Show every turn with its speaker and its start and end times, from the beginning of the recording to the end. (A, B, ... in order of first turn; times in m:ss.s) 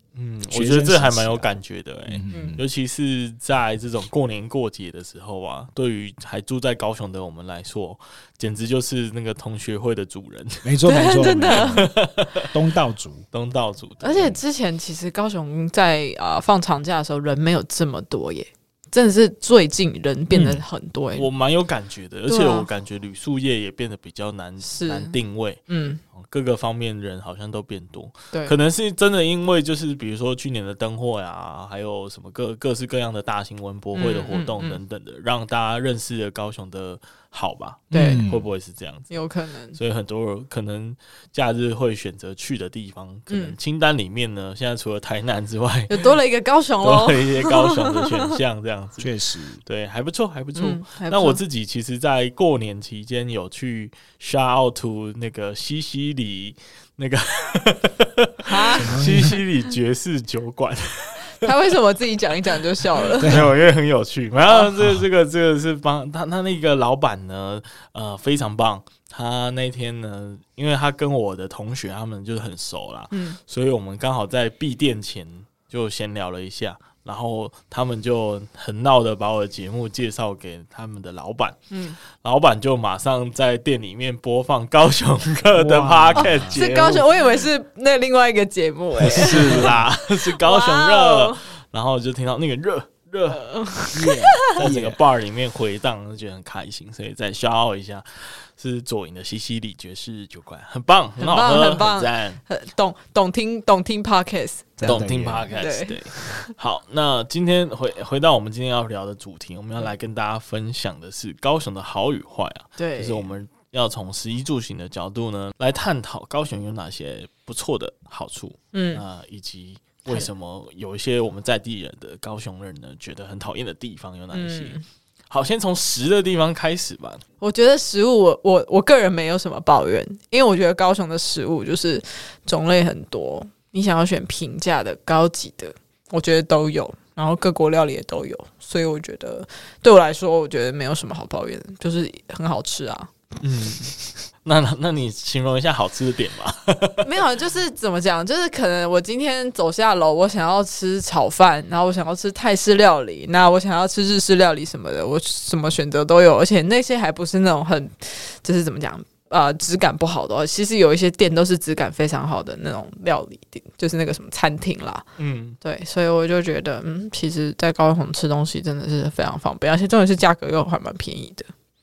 0:00.1-0:10.7 A
0:00.5-0:01.5 B
0:02.1-0:02.6 B
0:02.3-0:02.6 C
0:10.6-0:11.9 B
0:10.8-0:11.9 C
0:11.6-0:12.5 A
0:12.4-0:13.2 B
0:13.3-0:14.4 A
0:14.0-0:21.2 C
0:20.3-0:20.6 B
0:21.1-0:39.1 A
0:22.3-0:22.7 C
0:24.7-0:25.1 C
0:25.7-0:26.0 C
0:33.9-0:34.8 C
0:37.9-0:38.2 C
0:37.9-0:38.5 B
0:39.1-0:39.8 C
0:39.7-0:46.1 A
0:43.3-0:43.6 C
0:45.9-0:48.1 C
0:46.8-1:01.5 A
0:49.0-0:49.6 B
0:50.6-0:51.4 C
0:58.4-0:58.9 C
0:58.8-0:59.4 B
1:01.4-1:03.3 C
1:03.0-1:27.1 A
1:03.2-1:03.5 B
1:13.1-1:13.4 C
1:21.7-1:22.0 C
1:25.5-1:26.6 B
1:26.2-1:29.7 C
1:29.1-1:33.5 A
1:29.3-1:29.8 B
1:30.4-1:31.4 C
1:33.3-1:34.5 C
1:33.9-1:35.0 B
1:34.5-1:42.4 A
1:41.2-1:44.8 C
1:44.8-1:45.5 B
1:44.8-2:04.8 A
1:45.6-1:46.5 C
1:52.8-1:53.3 C
1:58.7-1:59.0 C
2:04.3-2:04.8 C
2:05.3-2:07.2 A
2:07.4-2:23.1 C
2:23.4-2:27.1 A
2:27.0-2:45.0 C
2:45.2-2:45.6 A
2:45.6-2:51.5 C